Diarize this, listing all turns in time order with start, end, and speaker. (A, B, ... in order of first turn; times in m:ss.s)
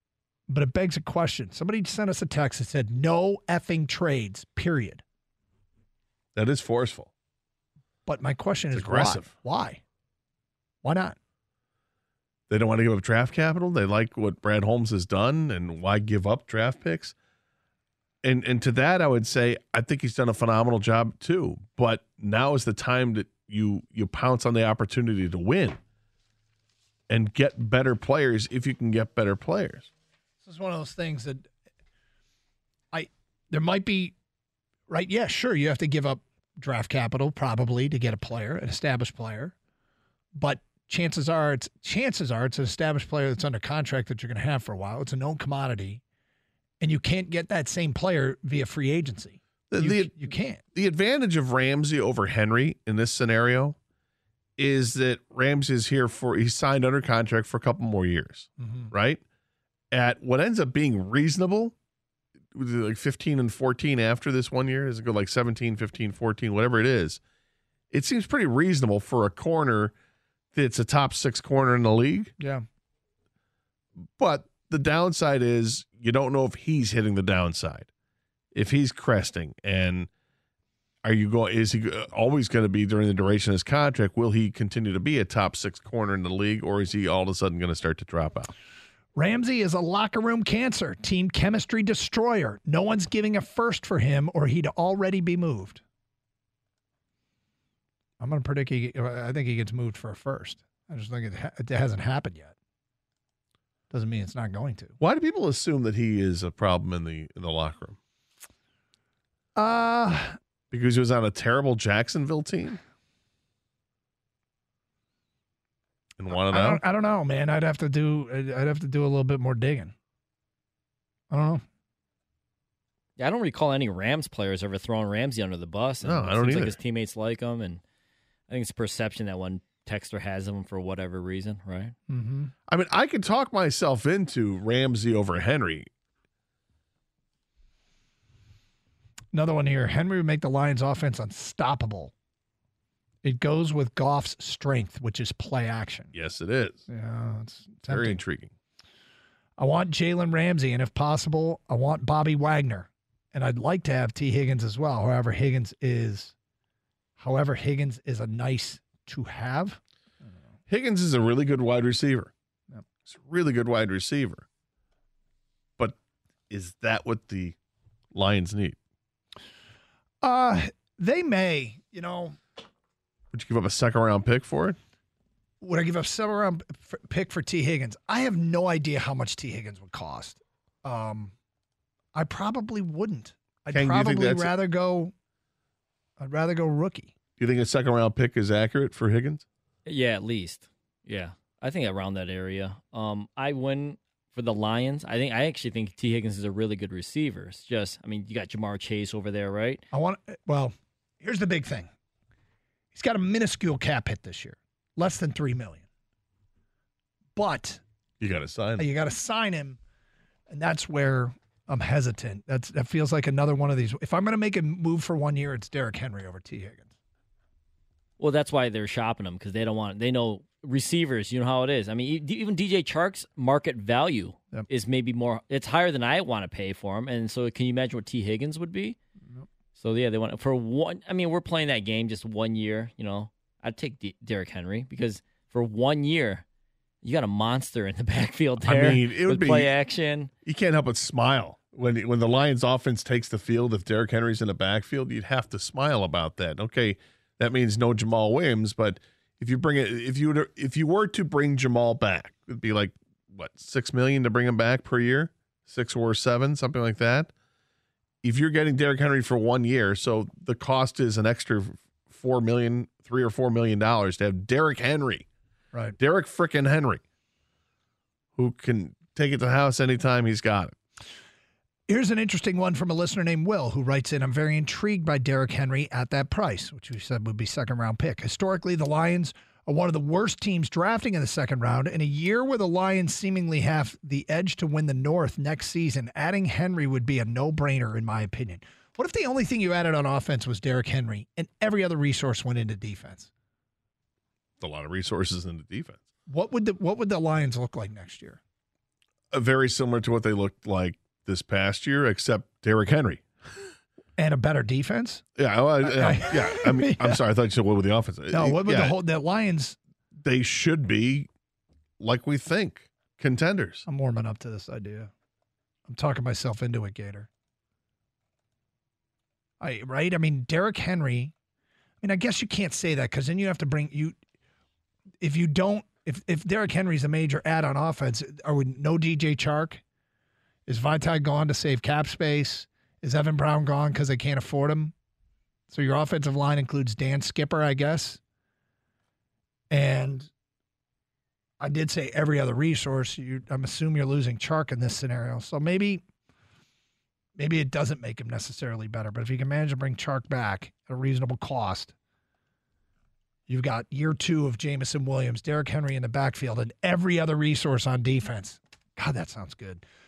0:00.5-0:05.0 A
0:06.4-0:07.1 B
0:08.1-0:09.8 A
0:08.7-0:09.3 B
0:10.8-0:11.2 A
0:12.5-0:17.1 B
0:18.2-0:25.8 B
0:27.1-0:29.9 B
0:30.4-0:31.5 A
0:32.9-0:34.2 A
0:34.9-0:39.5 A
0:40.4-0:46.0 A
0:46.8-0:50.6 A
0:49.7-0:53.8 B
0:54.6-0:59.2 B
0:58.6-0:58.9 A
0:59.9-1:01.8 B
1:02.5-1:07.2 B
1:07.9-1:09.9 B
1:10.5-1:12.3 B
1:12.4-1:12.6 A
1:14.2-1:17.9 B
1:18.5-1:20.1 B
1:21.0-1:28.5 B
1:29.2-1:35.8 A
1:38.2-1:42.6 A
1:43.9-1:45.0 A
1:45.0-1:48.0 B
1:49.6-1:50.4 A
1:50.7-1:52.8 B
1:56.2-1:56.8 B
1:56.3-1:59.9 A
2:01.3-2:01.6 A
2:03.2-2:07.8 C
2:06.0-2:06.8 B
2:08.5-2:11.9 C
2:12.1-2:12.5 A
2:12.7-2:15.9 B
2:19.3-2:22.1 A
2:23.2-2:26.1 A
2:26.1-2:26.8 B
2:26.9-2:28.2 A
2:27.9-2:28.5 B
2:29.6-2:36.3 A
2:37.2-2:39.8 A
2:40.7-2:42.3 B
2:43.0-2:44.4 B
2:46.5-2:47.6 B
2:48.1-2:48.8 B
2:50.2-2:52.4 A
2:53.3-2:54.8 B
2:55.6-3:01.3 A
3:02.2-3:05.1 A
3:03.7-3:04.5 B
3:06.2-3:07.1 A
3:07.4-3:09.4 B
3:09.9-3:19.8 C
3:19.9-3:21.9 A
3:22.9-3:25.8 A
3:27.4-3:27.8 A
3:28.2-3:28.9 B
3:28.8-3:29.8 A
3:30.5-3:36.9 A
3:38.2-3:49.0 C
3:49.8-3:56.4 C
3:57.0-4:00.3 C
3:58.6-3:59.8 B
4:00.4-4:17.3 B
4:18.2-4:25.3 B
4:26.0-4:27.0 B
4:28.4-4:30.8 B
4:31.9-4:53.3 A
4:54.6-4:56.0 B
4:56.3-4:58.4 A
4:59.3-5:03.2 B
5:04.2-5:05.2 A
5:05.4-5:09.0 B
5:05.8-5:07.2 A
5:08.3-5:09.8 A
5:10.2-5:11.3 B
5:12.0-5:13.8 B
5:13.9-5:15.1 A
5:15.9-5:17.3 A
5:19.6-5:21.3 A
5:22.0-5:24.2 A
5:25.2-5:29.8 A
5:30.7-5:34.9 A
5:35.7-5:38.2 A
5:39.7-5:40.3 A
5:41.6-5:46.0 A
5:47.4-5:51.9 A
5:53.5-5:59.8 A